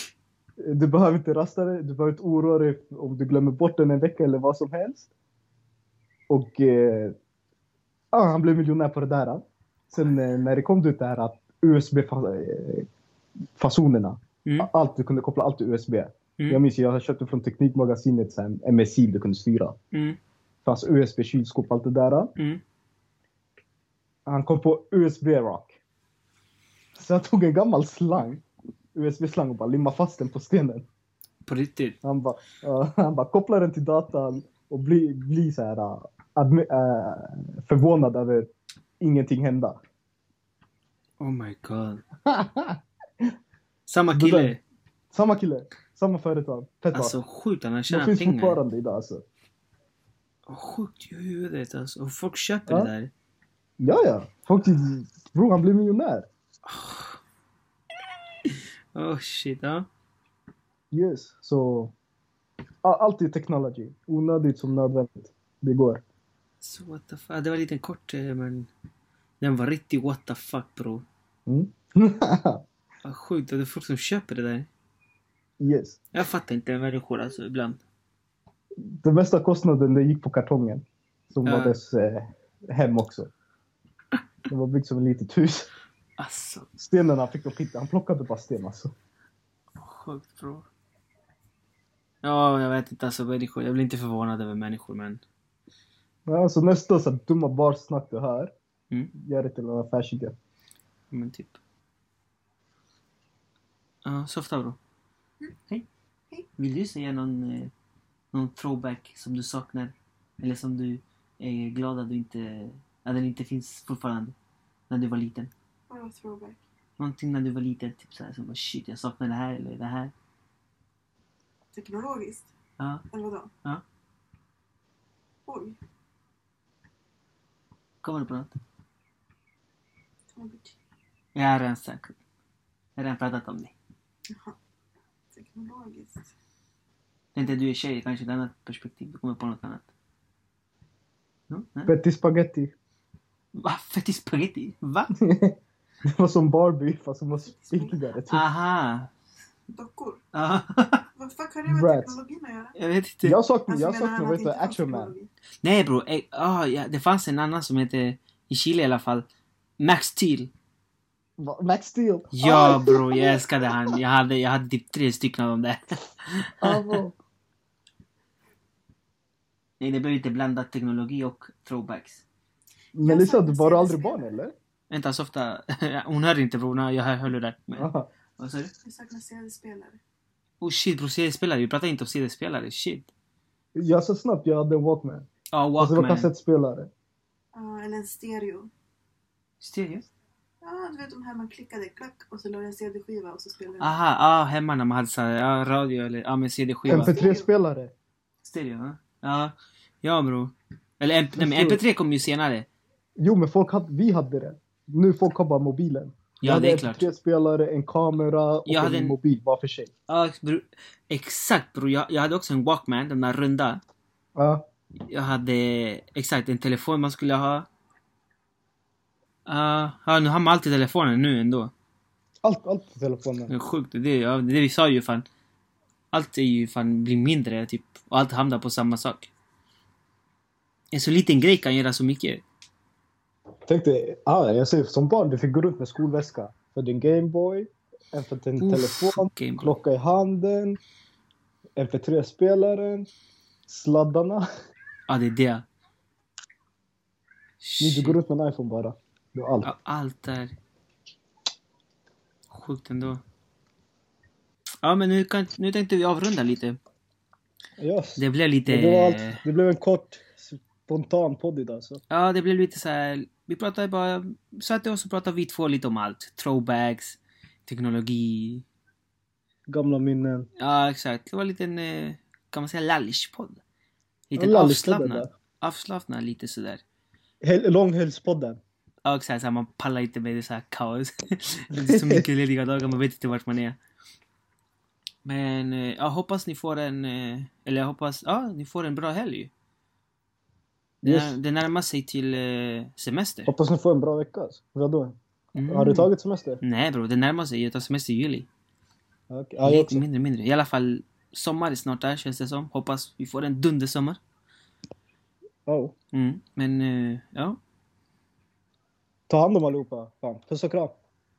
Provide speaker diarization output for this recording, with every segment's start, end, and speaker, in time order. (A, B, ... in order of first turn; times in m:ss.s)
0:00.6-0:05.1 A
0:06.3-0:07.2 A
0:08.1-0:12.9 A
0:13.5-0:19.8 A
0:16.4-0:16.6 B
0:19.9-0:20.2 B
0:20.6-0:22.3 A
0:24.2-0:25.7 A
0:26.9-0:28.4 A
0:28.9-0:30.8 A
0:31.4-0:32.0 B
0:32.0-0:39.8 A
0:41.2-0:42.0 B
0:42.2-0:43.3 A
0:43.9-0:44.6 B
0:44.1-0:44.6 A
0:45.1-0:47.2 A
0:46.9-0:48.6 B
0:47.9-0:49.2 A
0:50.5-0:53.1 B
0:53.8-0:56.3 A
0:56.6-0:57.2 B
0:58.5-0:59.9 B
1:00.9-1:01.9 A
1:02.8-1:06.0 A
1:06.6-1:08.7 B
1:09.4-1:11.0 B
1:11.4-1:12.6 A
1:13.0-1:14.7 B
1:15.6-1:16.0 A
1:16.1-1:17.8 B
1:18.8-1:23.3 A
1:21.4-1:21.8 B
1:24.5-1:25.7 A
1:26.2-1:26.7 B
1:26.8-1:28.9 A
1:29.8-1:30.7 B
1:32.2-1:35.2 B
1:36.3-1:38.5 A
1:39.1-1:40.3 A
1:41.1-1:41.6 B
1:44.0-1:44.8 B
1:46.6-1:47.7 B
1:48.3-1:54.3 B
1:54.9-1:55.5 B
1:55.9-1:56.6 C
1:57.0-2:00.1 B
2:01.7-2:02.5 C
2:02.8-2:03.0 B
2:03.1-2:03.5 C
2:05.4-2:05.8 C
2:08.0-2:08.6 B
2:10.3-2:10.8 C
2:11.3-2:12.2 B
2:13.0-2:13.7 B
2:14.3-2:14.6 C
2:15.3-2:16.3 C
2:17.3-2:19.8 B
2:21.5-2:21.9 B
2:21.8-2:22.7 A
2:23.5-2:25.1 B
2:25.2-2:28.4 A
2:27.5-2:28.0 C
2:28.3-2:29.1 B
2:29.7-2:30.2 C
2:30.3-2:31.0 B
2:31.2-2:32.8 C
2:31.6-2:32.2 A
2:32.8-2:33.4 B
2:33.2-2:35.1 A
2:33.7-2:35.3 C
2:35.6-2:39.2 B
2:39.8-2:40.5 B
2:41.4-2:43.4 A
2:42.3-2:47.0 B
2:46.6-2:47.2 A
2:49.8-2:52.2 B
2:52.9-2:54.5 A
2:53.0-2:54.3 C
2:54.9-2:58.7 B
2:57.8-2:58.1 A
2:58.8-3:00.0 C
3:00.6-3:03.1 B
3:03.7-3:05.3 A
3:05.5-3:06.3 B
3:05.8-3:06.9 A
3:07.5-3:08.7 C
3:09.6-3:10.1 B
3:10.6-3:13.9 C
3:13.8-3:17.1 B
3:16.8-3:17.5 C
3:16.9-3:17.9 A
3:18.4-3:22.7 B
3:21.4-3:21.8 A
3:23.2-3:29.9 A
3:26.4-3:27.0 B
3:28.6-3:29.2 B
3:30.1-3:33.8 B
3:34.4-3:34.7 A
3:35.1-3:37.7 B
3:39.4-3:41.7 B
3:42.4-3:43.5 A
3:43.5-3:45.2 B
3:46.1-3:49.3 B
3:50.9-3:52.4 B
3:53.7-4:00.8 A
3:58.6-3:59.7 B
4:01.8-4:03.1 A
4:03.7-4:04.4 A
4:05.1-4:05.6 B
4:07.6-4:08.2 B
4:07.8-4:09.7 A
4:09.6-4:10.5 B
4:12.5-4:13.2 B
4:14.8-4:16.8 B
4:17.8-4:22.0 A
4:18.2-4:19.4 B
4:22.1-4:28.6 B
4:29.7-4:30.5 A
4:30.6-4:33.6 B
4:34.3-4:36.8 B
4:34.4-4:35.3 A
4:37.4-4:38.6 A
4:39.0-4:43.8 B
4:41.7-4:42.2 A
4:45.2-4:49.5 B
4:51.0-4:53.5 B
4:51.0-4:51.4 A
4:53.5-4:55.2 A
4:55.5-4:56.1 B
4:55.7-4:56.6 A
4:56.6-4:58.5 B
4:59.3-5:00.0 A
4:59.6-5:04.2 B
5:05.6-5:05.9 A
5:06.1-5:07.6 B
5:09.3-5:10.9 A